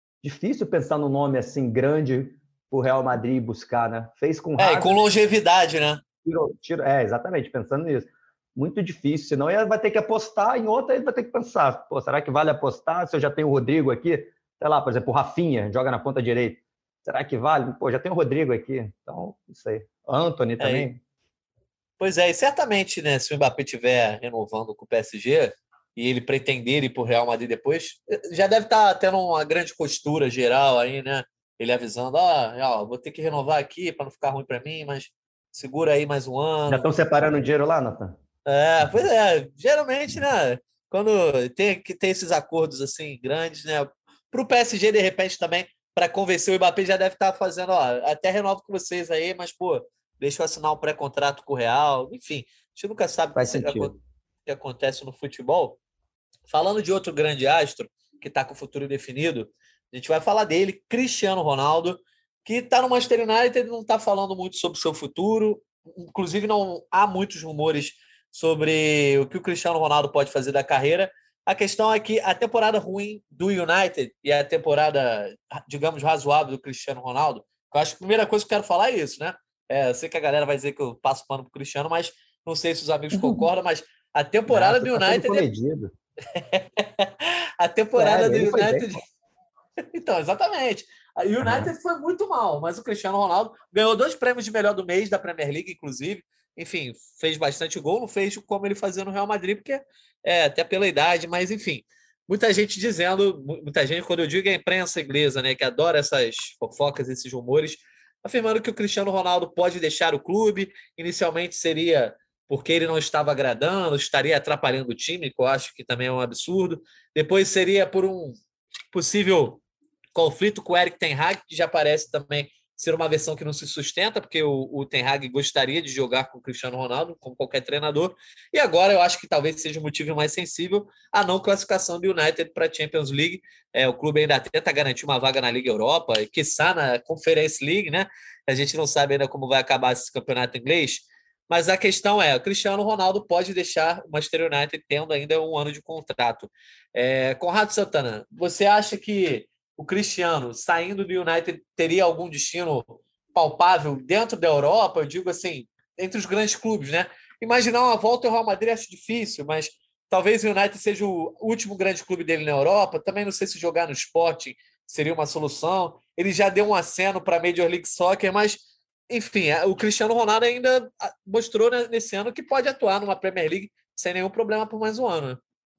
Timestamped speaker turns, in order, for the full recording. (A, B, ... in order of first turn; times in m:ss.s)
0:00.2-0:05.0 A
0:04.6-0:06.0 B
0:06.2-0:21.0 A
0:20.6-0:20.9 B
0:22.0-0:36.9 B
0:36.7-0:38.2 A
0:38.4-0:53.9 B
0:53.3-0:54.0 A
0:54.4-0:55.8 B
0:56.5-1:25.5 B
1:23.1-1:23.5 A
1:24.5-1:25.9 A
1:26.3-1:29.0 B
1:28.0-1:28.9 A
1:29.9-1:58.4 B
1:31.4-1:31.7 A
1:58.9-1:59.6 B
2:00.1-2:55.4 B